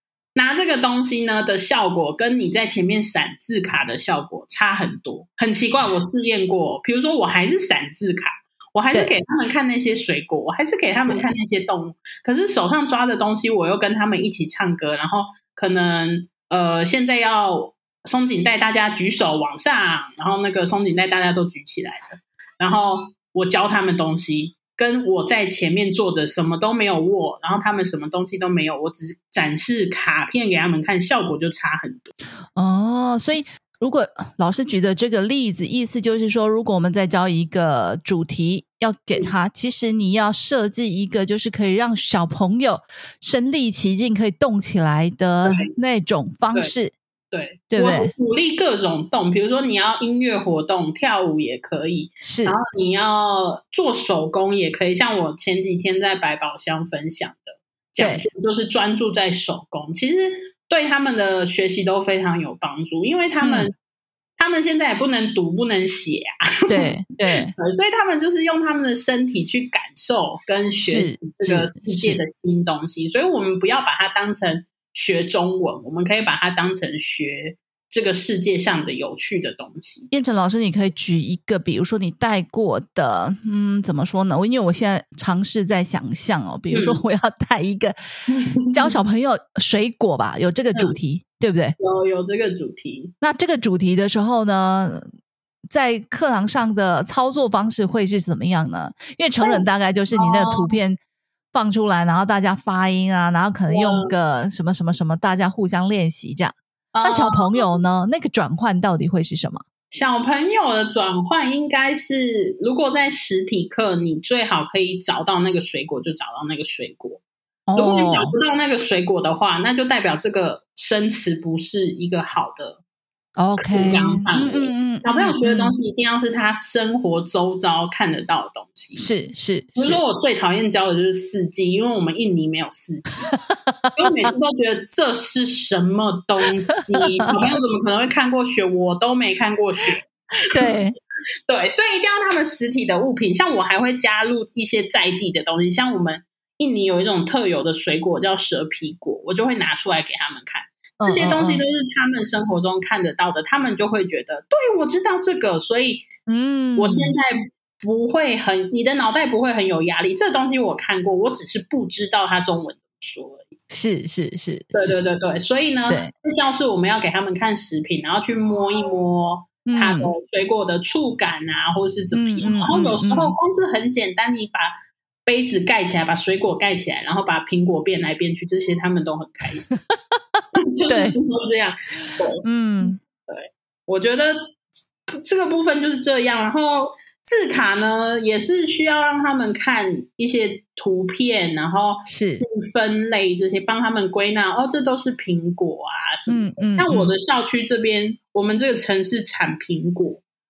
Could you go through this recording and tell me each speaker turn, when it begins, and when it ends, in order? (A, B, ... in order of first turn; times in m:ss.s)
0:00.3-0:32.1 A
0:32.5-0:46.9 B
0:47.3-1:03.7 A
0:47.7-0:48.1 B
0:52.2-0:52.6 B
0:58.0-0:58.3 B
1:03.4-1:03.7 B
1:04.4-1:06.8 A
1:06.7-1:07.5 B
1:07.6-1:20.1 A
1:10.8-1:12.2 B
1:20.1-1:28.0 B
1:26.7-1:27.0 A
1:28.3-1:29.0 A
1:28.7-1:31.8 B
1:31.8-1:33.1 A
1:33.2-1:35.1 B
1:35.7-1:41.0 B
1:39.4-1:40.8 A
1:41.5-1:49.6 B
1:43.7-1:44.1 A
1:46.9-1:47.7 A
1:49.9-1:57.2 A
1:57.7-1:58.3 B
1:57.8-2:02.8 A
2:03.4-2:05.7 B
2:03.6-2:09.0 A
2:09.0-2:10.0 B
2:09.8-2:13.3 A
2:13.7-2:14.1 B
2:13.9-2:20.7 A
2:20.5-2:20.9 B
2:21.5-2:36.1 A
2:31.0-2:31.6 B
2:36.3-2:37.1 B
2:36.8-2:43.5 A
2:43.7-2:45.0 B
2:44.7-2:54.7 A
2:49.6-2:50.1 B
2:52.1-2:53.4 B
2:55.2-2:59.7 A
3:00.3-3:01.2 B
3:00.6-3:02.4 A
3:02.0-3:03.0 B
3:03.3-3:20.2 A
3:12.1-3:12.4 B
3:16.3-3:17.1 B